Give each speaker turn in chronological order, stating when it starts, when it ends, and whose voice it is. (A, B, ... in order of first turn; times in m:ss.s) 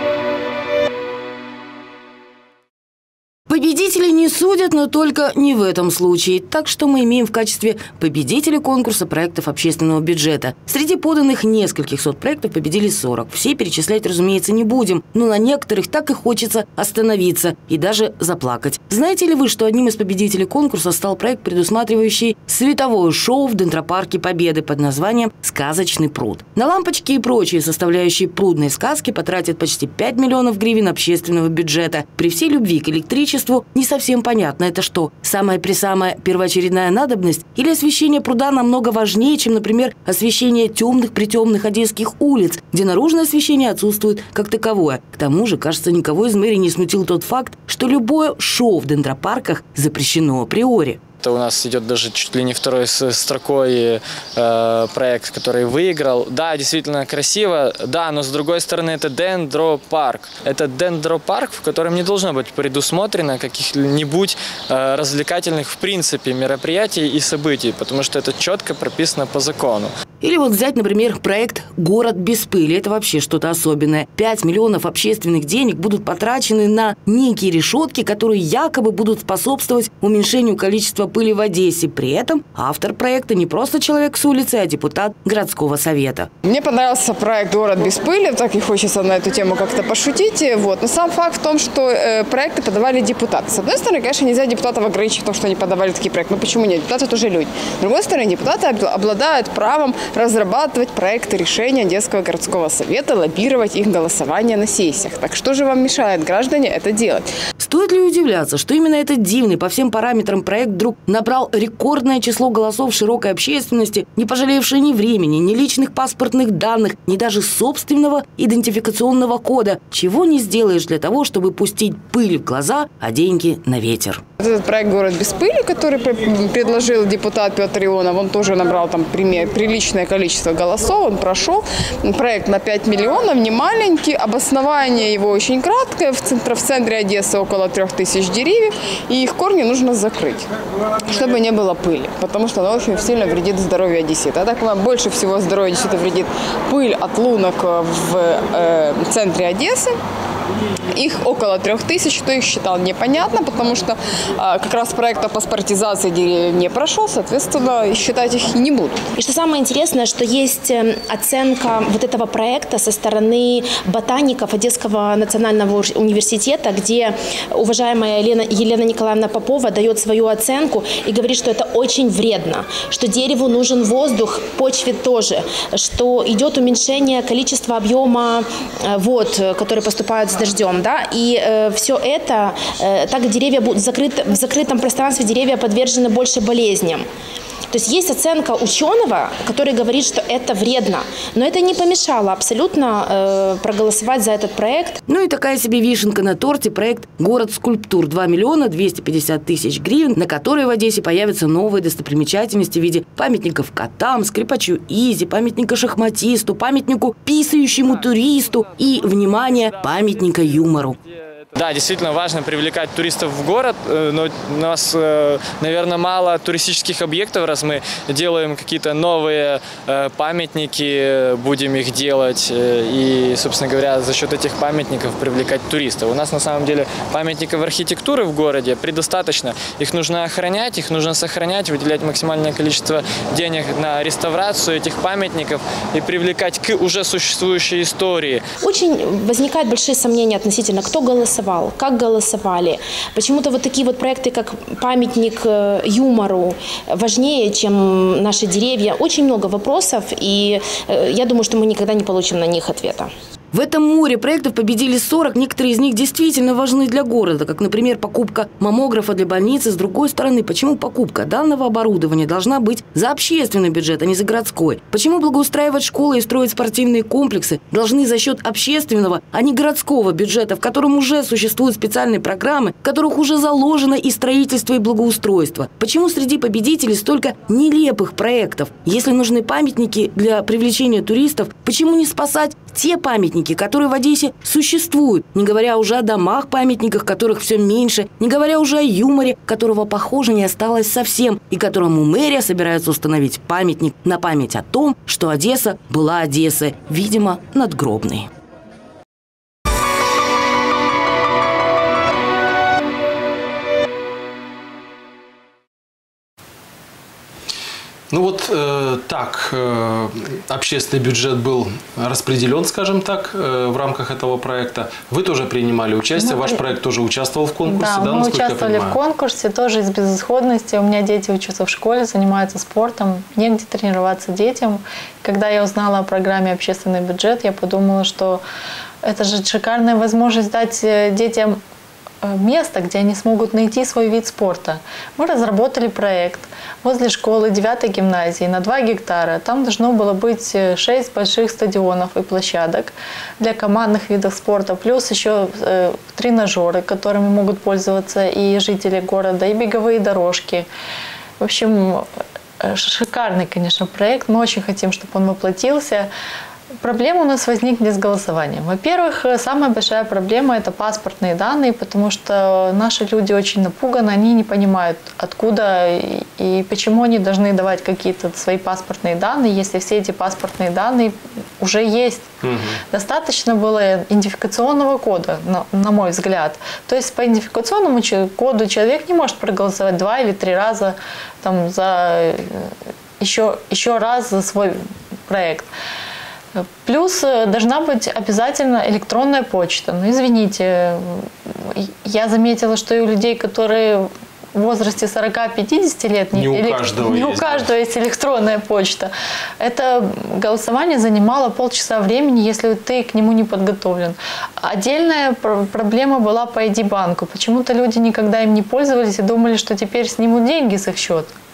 0:03.5-0:51.0 A
0:51.2-1:09.9 B
1:10.2-1:26.3 A
1:26.4-1:47.3 C
1:47.6-2:04.2 A
2:04.4-2:20.5 C
2:21.0-2:29.9 C
2:30.9-2:39.1 C
2:39.2-3:07.0 D
3:07.7-3:15.0 D
3:15.1-3:31.0 A
3:31.5-3:58.4 B
3:58.6-4:13.1 D
4:13.5-4:58.3 A
5:08.1-5:19.0 E
5:16.2-5:16.6 F
5:17.6-5:28.4 F
5:29.0-5:31.6 F
5:32.2-5:50.7 F
5:51.4-5:52.0 F
5:52.6-5:56.1 F
5:56.8-6:12.3 F
6:12.4-6:12.8 E
6:12.9-6:25.7 F
6:26.6-6:51.3 F
6:36.3-6:37.7 E